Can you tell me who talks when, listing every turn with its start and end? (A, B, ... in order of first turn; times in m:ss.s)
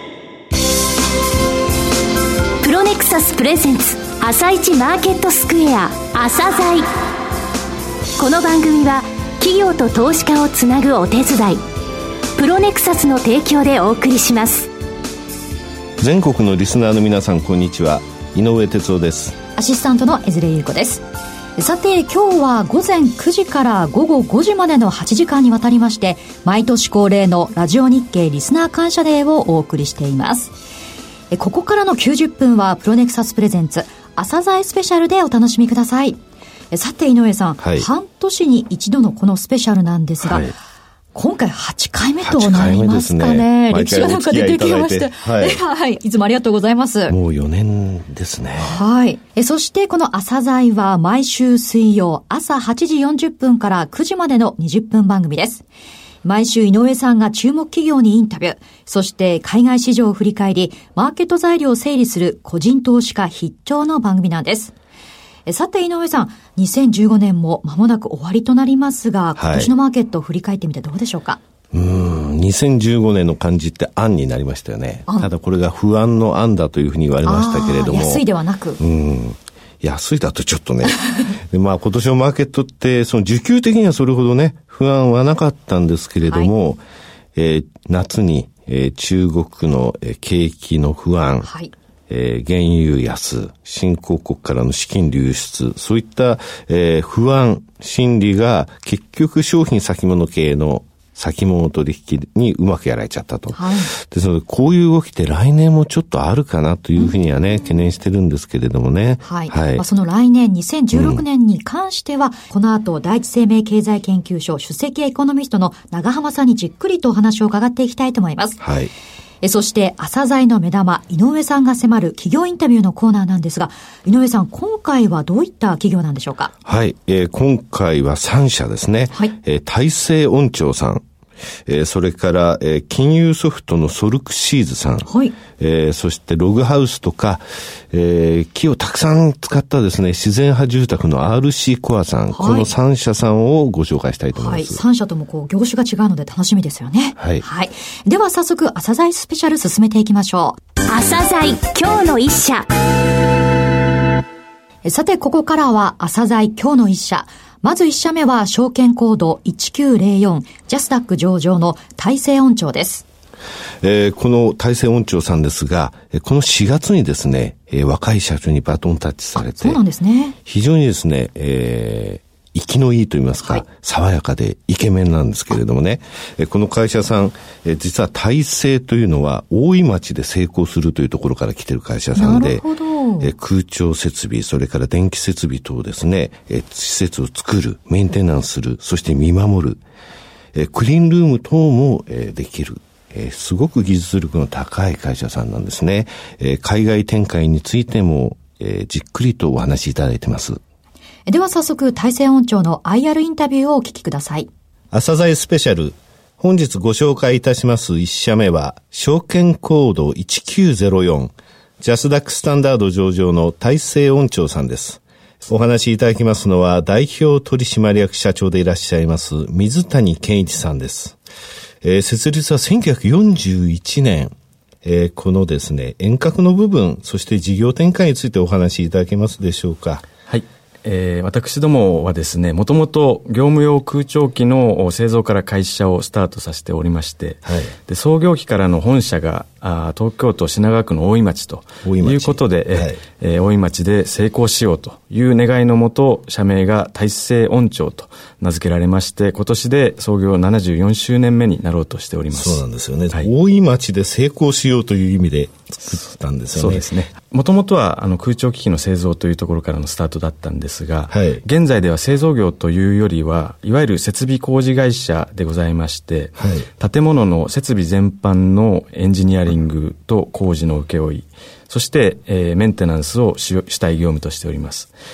0:02.6-0:06.9 A
0:08.2-0:11.6 A
0:12.4-0:14.7 A
0:16.0-0:19.4 B
0:19.6-0:21.0 C
0:21.6-0:30.5 C
0:31.3-0:36.2 C
0:36.7-0:40.6 C
0:37.6-0:37.9 B
0:40.2-0:40.5 B
0:41.1-0:47.2 C
0:42.2-0:45.6 B
0:47.1-0:48.8 B
0:48.6-0:55.6 C
0:56.2-1:04.7 C
1:05.4-1:11.4 C
1:09.4-1:09.7 B
1:11.7-1:18.2 B
1:17.2-1:18.8 C
1:18.8-1:26.8 B
1:27.3-1:31.5 B
1:31.4-1:31.7 C
1:32.1-1:49.8 B
1:43.5-1:43.9 C
1:49.2-1:58.6 C
1:50.9-1:51.2 B
1:58.6-1:58.9 B
1:59.4-2:06.5 C
2:06.6-2:11.0 B
2:11.6-2:24.8 B
2:15.1-2:15.3 C
2:22.3-2:22.7 C
2:24.4-2:30.6 C
2:27.2-2:27.4 B
2:30.9-2:32.7 A
2:34.8-2:43.0 C
2:43.8-2:49.8 B
2:49.4-2:50.4 C
2:50.4-3:02.6 B
3:02.2-3:03.3 C
3:03.2-3:09.8 B
3:10.5-3:20.6 B
3:21.3-3:24.5 C
3:24.9-3:41.2 B
3:41.8-3:50.1 B
3:50.3-4:13.3 D
3:57.4-3:57.7 B
4:01.8-4:03.0 B
4:12.3-4:16.9 B
4:16.5-4:34.9 D
4:21.1-4:21.4 B
4:26.4-4:26.7 B